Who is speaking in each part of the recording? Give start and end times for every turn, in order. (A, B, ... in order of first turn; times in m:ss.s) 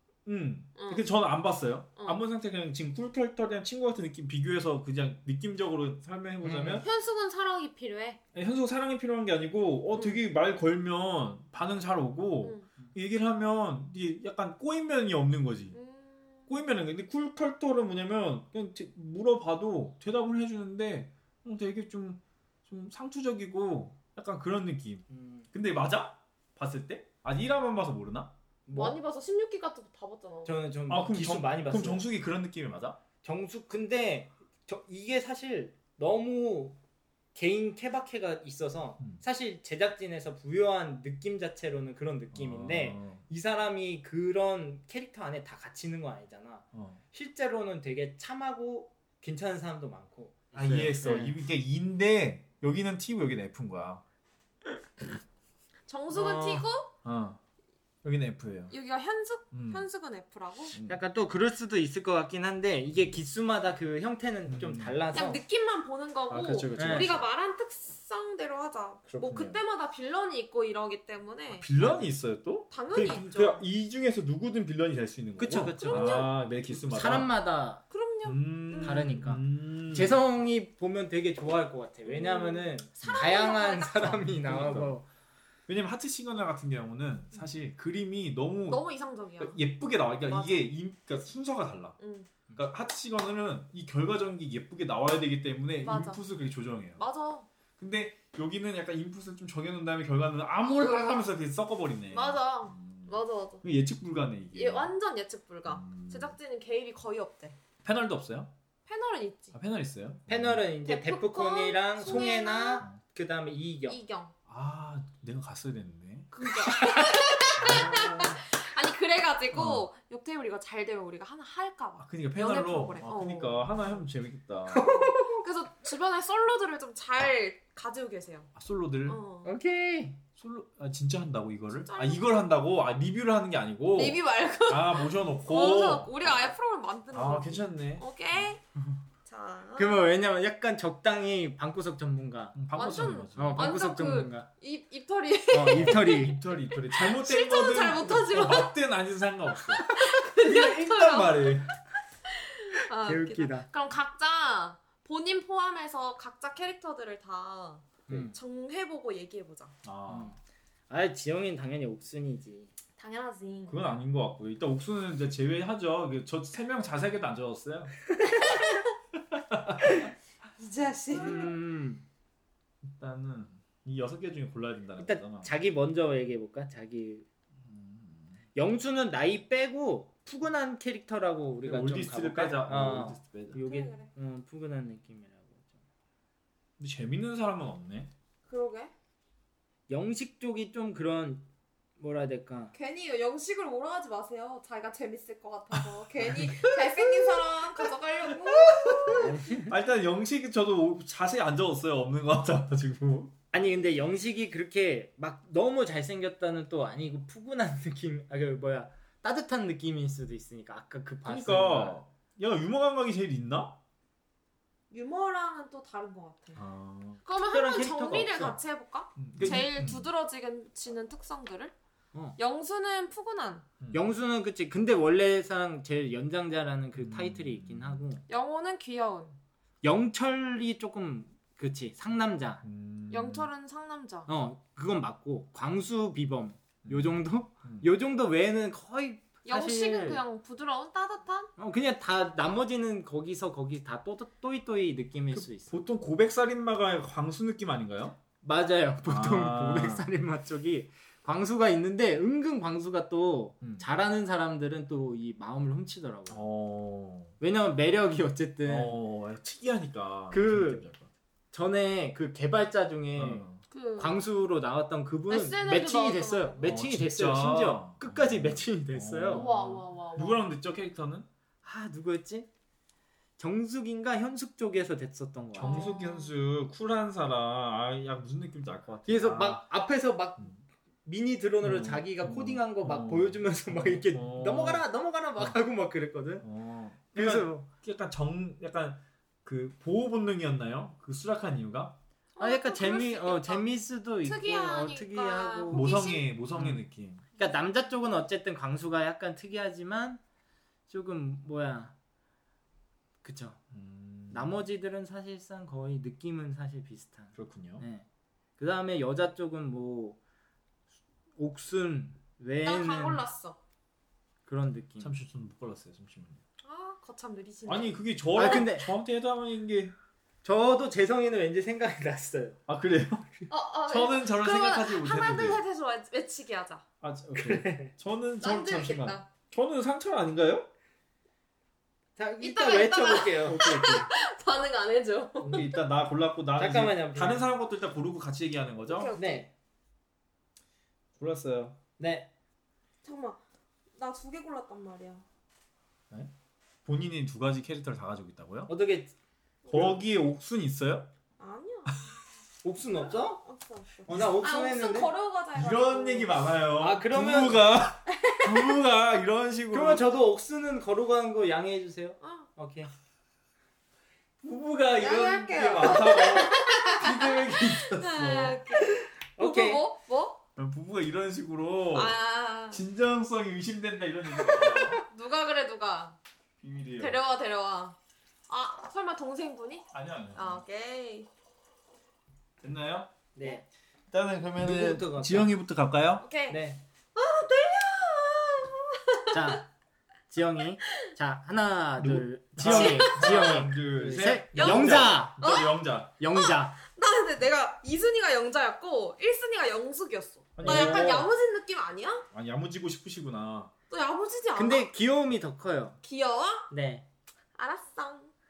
0:00.2-0:06.9 A
0:00.8-0:01.1 B
0:06.4-0:06.8 C
0:06.8-0:08.2 B
0:08.3-0:15.8 A
0:10.0-0:10.2 B
0:15.7-0:16.6 B
0:16.5-0:28.3 A
0:25.1-0:25.5 C
0:28.6-0:29.0 C
0:28.8-0:30.5 B
0:30.5-0:32.1 C
0:30.9-0:33.0 A
0:33.2-0:36.8 C
0:37.4-0:51.4 C
0:42.3-0:43.2 A
0:46.7-0:47.0 A
0:50.5-0:54.0 A
0:55.9-0:56.9 B
0:56.1-0:56.6 C
0:57.0-0:57.4 A
0:58.0-0:58.7 A
0:58.7-1:00.8 B
0:59.5-0:59.9 A
1:00.7-1:01.0 A
1:00.9-1:05.4 C
1:04.5-1:05.0 A
1:05.1-1:11.7 B
1:06.3-1:07.3 A
1:06.8-1:07.2 C
1:09.1-1:09.6 A
1:11.5-1:17.3 A
1:11.8-1:12.0 C
1:12.7-1:13.6 B
1:15.4-1:17.8 C
1:15.8-1:16.3 B
1:17.9-1:19.1 B
1:18.2-1:20.2 A
1:18.8-1:25.0 C
1:22.0-1:24.2 B
1:23.0-1:23.3 A
1:24.0-1:25.0 A
1:25.7-1:28.8 A
1:28.7-1:29.6 B
1:29.4-1:32.0 A
1:30.2-1:30.7 B
1:32.0-1:32.3 B
1:32.6-1:37.0 A
1:35.8-1:36.2 B
1:37.0-1:37.5 B
1:37.8-1:44.9 A
1:42.1-1:43.6 B
1:44.5-1:47.6 B
1:45.6-1:46.4 A
1:47.8-1:48.5 A
1:48.9-1:49.5 B
1:49.5-1:50.6 A
1:50.3-1:54.0 C
1:50.9-1:52.9 B
1:53.9-1:54.3 B
1:54.5-1:56.3 A
1:56.3-2:03.6 B
1:56.6-1:58.4 C
1:57.6-1:58.4 A
1:59.5-1:59.9 A
2:02.0-2:04.9 A
2:04.7-2:05.4 C
2:04.9-2:08.5 B
2:08.6-2:09.2 A
2:09.0-2:09.5 B
2:09.4-2:10.2 C
2:10.4-2:16.5 A
2:11.8-2:12.3 B
2:13.9-2:18.6 B
2:17.1-2:18.6 A
2:19.2-2:20.0 B
2:19.8-2:22.6 C
2:22.5-2:23.6 A
2:22.7-2:28.7 B
2:23.4-2:24.5 C
2:25.5-2:26.4 C
2:25.8-2:31.7 A
2:29.6-2:31.7 B
2:32.3-2:39.8 B
2:33.0-2:33.7 C
2:38.1-2:38.4 C
2:39.8-2:40.4 A
2:40.1-2:40.4 C
2:40.9-2:42.7 C
2:43.0-2:43.8 B
2:43.7-2:48.0 A
2:48.2-2:48.8 C
2:49.3-2:50.1 A
2:50.6-2:51.5 B
2:51.1-2:52.0 C
2:52.9-2:55.5 A
2:55.0-2:57.2 C
2:57.6-2:58.4 A
2:58.5-3:05.7 C
3:01.6-3:03.6 A
3:03.6-3:04.1 B
3:06.8-3:08.1 A
3:08.5-3:08.9 B
3:09.9-3:11.4 C
3:12.0-3:12.8 C
3:12.7-3:19.3 B
3:15.7-3:23.3 A
3:19.1-3:19.8 C
3:23.5-3:32.0 C
3:31.2-3:33.8 A
3:34.9-3:36.6 B
3:36.6-3:37.2 A
3:37.2-3:41.7 B
3:37.5-3:38.6 C
3:39.2-3:40.1 A
3:39.4-3:39.6 C
3:42.4-3:43.6 B
3:43.9-3:48.2 C
3:47.0-3:48.0 A
3:48.3-3:49.4 B
3:49.8-3:52.6 C
3:52.6-3:53.5 A
3:53.1-3:54.3 B
3:54.3-4:00.2 C
3:56.8-3:57.9 A
3:59.4-4:01.5 B
4:01.6-4:05.8 C
4:05.3-4:08.2 A
4:08.4-4:16.4 C
4:09.0-4:10.0 A
4:16.3-4:17.4 A
4:17.4-4:19.0 C
4:18.6-4:21.1 A
4:20.3-4:20.8 C
4:21.5-4:23.5 C
4:23.1-4:23.6 A
4:23.7-4:24.2 B
4:24.0-4:29.5 C
4:25.3-4:26.7 B
4:26.6-4:31.3 A
4:29.3-4:30.4 B
4:31.6-4:32.5 C
4:33.4-4:35.9 C
4:35.5-4:39.6 A
4:35.6-4:36.4 B
4:39.0-4:46.5 C
4:41.6-4:44.8 A
4:46.4-4:52.0 A
4:47.1-4:47.7 C
4:52.4-4:53.7 B
4:52.4-4:55.9 C
4:54.2-4:56.2 B
4:55.7-4:57.2 A
4:56.5-4:56.8 C
4:57.4-5:00.2 C
5:00.9-5:02.0 C
5:03.2-5:03.6 C
5:03.7-5:04.6 A
5:04.3-5:08.0 C
5:07.4-5:07.8 A
5:08.6-5:10.2 C
5:11.4-5:13.2 C
5:12.6-5:13.6 B
5:14.5-5:15.1 C
5:15.0-5:16.4 A
5:16.6-5:18.0 B
5:17.6-5:19.9 A
5:18.3-5:18.9 C
5:20.4-5:22.6 C
5:22.7-5:23.3 A
5:23.5-5:26.8 B
5:23.9-5:25.6 A
5:27.0-5:30.7 A
5:27.4-5:27.9 C
5:28.4-5:29.2 B
5:32.2-5:34.0 C
5:32.4-5:35.8 B
5:33.4-5:34.1 A
5:35.4-5:35.7 C
5:35.5-5:39.1 A
5:36.6-5:37.5 C
5:38.9-5:39.5 B
5:39.2-5:39.5 C
5:41.2-5:41.8 A
5:42.0-5:42.3 C
5:43.0-5:43.4 B
5:44.0-5:45.2 B
5:46.8-5:48.7 A
5:48.7-5:49.1 C
5:49.6-5:50.0 B
5:49.7-5:51.1 A
5:51.4-5:52.2 B
5:52.6-5:53.4 C
5:53.0-5:56.4 B
5:54.1-5:55.1 C
5:55.5-6:00.0 A
5:56.8-5:57.6 C
5:58.2-5:58.6 B
5:59.7-6:02.9 C
6:02.2-6:02.5 B
6:04.4-6:08.8 A
6:05.0-6:10.4 B
6:09.4-6:09.8 C
6:10.6-6:12.2 A
6:11.9-6:12.8 B
6:12.7-6:15.0 A
6:14.5-6:16.2 B
6:16.6-6:17.2 A
6:17.0-6:18.0 B
6:18.5-6:21.3 B
6:19.9-6:20.6 A
6:22.6-6:23.1 A
6:23.4-6:23.6 C
6:24.1-6:26.2 A
6:24.6-6:25.5 C
6:26.2-6:26.6 B
6:26.5-6:26.8 C
6:27.1-6:29.6 B
6:29.3-6:29.6 C
6:30.3-6:35.4 C
6:32.0-6:36.1 A
6:32.6-6:33.7 B
6:34.5-6:35.8 B
6:36.2-6:36.8 C
6:36.3-6:42.2 B
6:40.6-6:41.3 A
6:40.6-6:41.3 C
6:42.3-6:43.7 A
6:43.9-6:44.9 B
6:44.5-6:46.0 C
6:46.0-6:46.7 B
6:46.7-6:47.0 C
6:47.5-6:48.3 B